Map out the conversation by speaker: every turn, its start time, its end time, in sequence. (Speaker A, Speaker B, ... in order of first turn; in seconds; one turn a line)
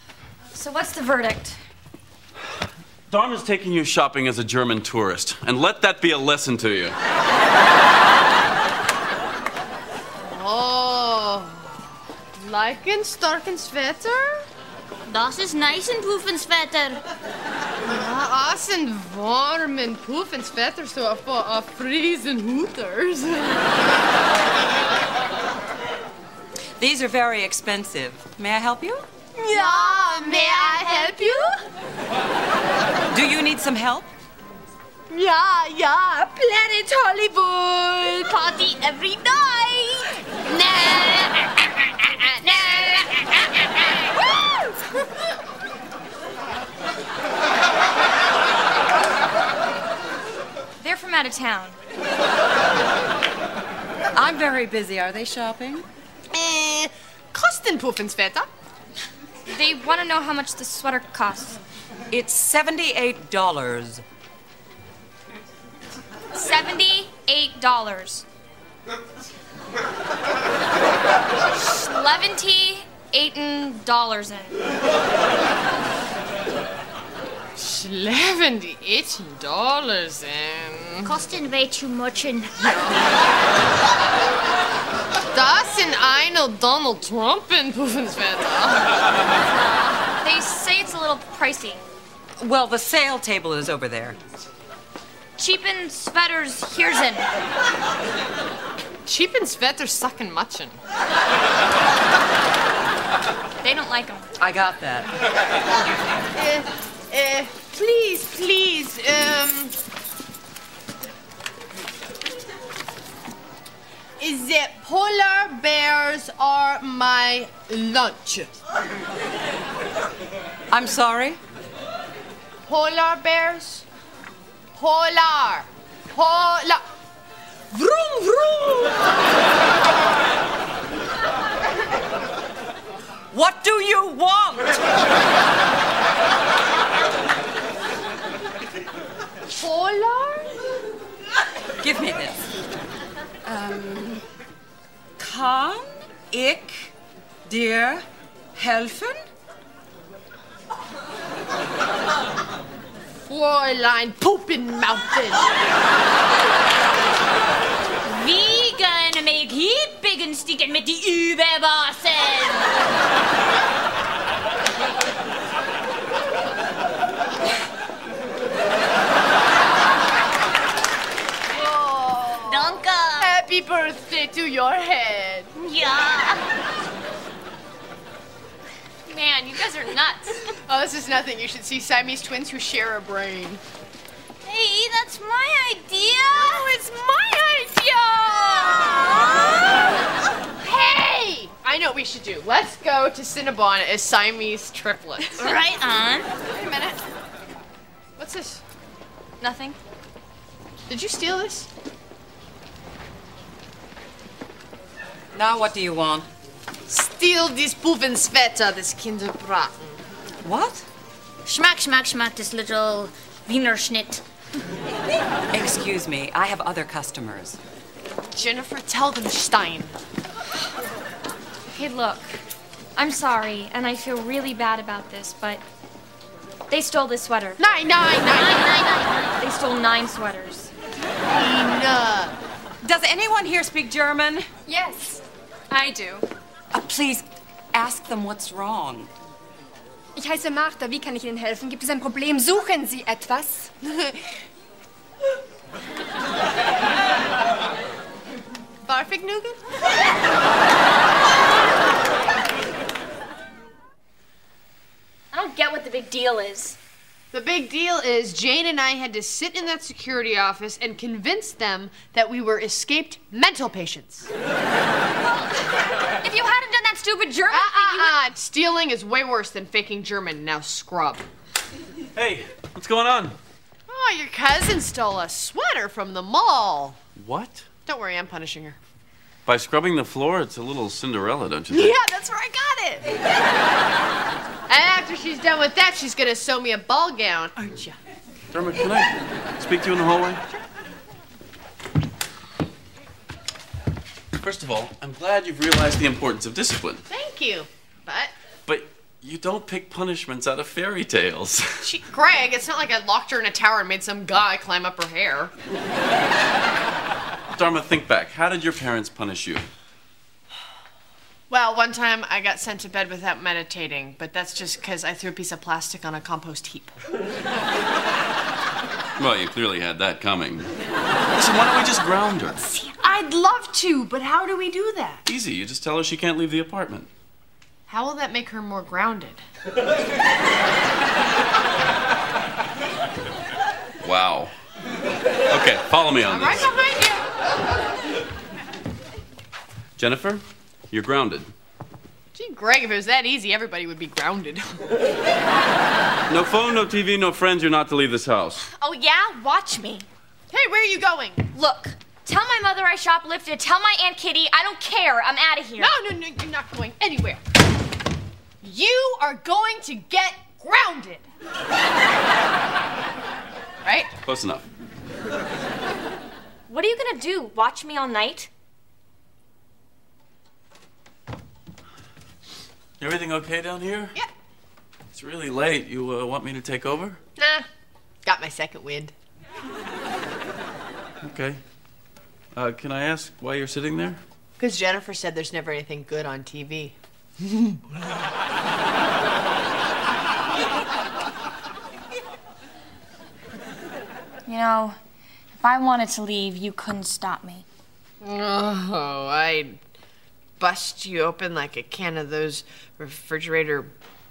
Speaker A: 0.5-1.6
Speaker B: 3.1-7.0
Speaker C: 10.2-11.8
Speaker C: 12.4-14.4
Speaker D: 15.1-17.0
Speaker C: 17.9-23.7
Speaker E: 26.8-29.1
Speaker A: 29.5-31.4
Speaker C: 29.5-31.5
Speaker E: 33.1-34.1
Speaker A: 37.0-37.3
Speaker D: 38.2-40.0
Speaker D: 42.5-43.1
Speaker A: 50.8-51.8
Speaker E: 54.1-55.9
Speaker C: 56.3-58.5
Speaker A: 59.5-61.6
Speaker E: 62.1-64.0
Speaker A: 66.3-68.2
Speaker A: 71.5-74.6
Speaker C: 77.6-81.2
Speaker D: 81.0-82.9
Speaker C: 85.3-89.0
Speaker A: 90.1-91.8
Speaker E: 92.4-94.2
Speaker A: 95.4-97.3
Speaker C: 99.1-100.8
Speaker A: 103.6-104.3
Speaker E: 104.4-105.1
Speaker C: 106.3-109.8
Speaker C: 114.2-118.5
Speaker E: 120.7-121.4
Speaker C: 122.7-123.8
Speaker C: 124.7-126.8
Speaker E: 133.3-134.8
Speaker C: 139.6-140.6
Speaker E: 141.8-142.4
Speaker E: 143.5-144.2
Speaker E: 145.2-146.9
Speaker E: 147.5-148.0
Speaker E: 148.6-149.2
Speaker C: 153.2-155.5
Speaker D: 158.0-162.7
Speaker C: 171.5-175.5
Speaker D: 172.4-173.3
Speaker D: 175.6-176.4
Speaker A: 179.1-180.3
Speaker C: 180.7-183.6
Speaker D: 184.5-186.6
Speaker C: 186.4-188.9
Speaker C: 190.6-195.5
Speaker D: 195.4-196.3
Speaker C: 196.5-197.0
Speaker C: 198.2-198.6
Speaker A: 199.4-199.8
Speaker C: 200.9-201.7
Speaker E: 205.3-206.3
Speaker C: 206.9-210.0
Speaker E: 210.4-210.8
Speaker D: 211.4-214.2
Speaker E: 215.5-217.6
Speaker C: 218.3-219.9
Speaker A: 221.7-222.3
Speaker A: 223.0-225.6
Speaker A: 226.7-227.6
Speaker C: 227.6-229.0
Speaker A: 229.4-230.7
Speaker C: 231.3-232.4
Speaker E: 232.8-234.5
Speaker F: 234.7-236.2
Speaker E: 236.7-239.1
Speaker F: 240.2-243.9
Speaker C: 248.8-249.6
Speaker A: 255.3-256.8
Speaker C: 257.3-264.3
Speaker A: 266.2-268.2
Speaker C: 267.5-271.2
Speaker B: 272.1-273.4
Speaker C: 273.9-277.0
Speaker B: 277.2-277.7
Speaker C: 277.9-278.8
Speaker B: 279.5-282.0
Speaker C: 281.7-283.1
Speaker C: 284.7-288.0
Speaker B: 288.5-290.4
Speaker B: 294.4-297.1
Speaker C: 297.1-298.3
Speaker B: 298.7-301.9
Speaker C: 301.8-305.5
Speaker B: 307.6-309.6
Speaker C: 311.5-317.0
Speaker B: 319.2-320.7
Speaker B: 321.4-322.6
Speaker C: 322.6-325.2
Speaker B: 325.2-327.1
Speaker C: 327.9-329.4
Speaker B: 334.0-334.5
Speaker B: 335.5-336.7
Speaker C: 336.2-337.3
Speaker B: 340.0-341.5
Speaker C: 342.4-344.8
Speaker B: 346.3-348.7
Speaker C: 348.8-349.9
Speaker A: 349.6-349.9
Speaker C: 350.5-351.5
Speaker A: 351.5-355.9
Speaker C: 355.8-357.4
Speaker C: 358.6-361.2
Speaker C: 363.9-364.1
Speaker B: 364.2-364.6
Speaker A: 366.7-368.5
Speaker B: 373.0-374.1
Speaker B: 375.1-377.2
Speaker C: 377.4-377.7
Speaker C: 378.2-379.1
Speaker B: 381.2-381.6
Speaker B: 382.6-384.2
Speaker C: 384.6-387.8
Speaker A: 394.5-395.0
Speaker A: 395.6-397.6
Speaker C: 398.2-399.8
Speaker C: 400.6-403.9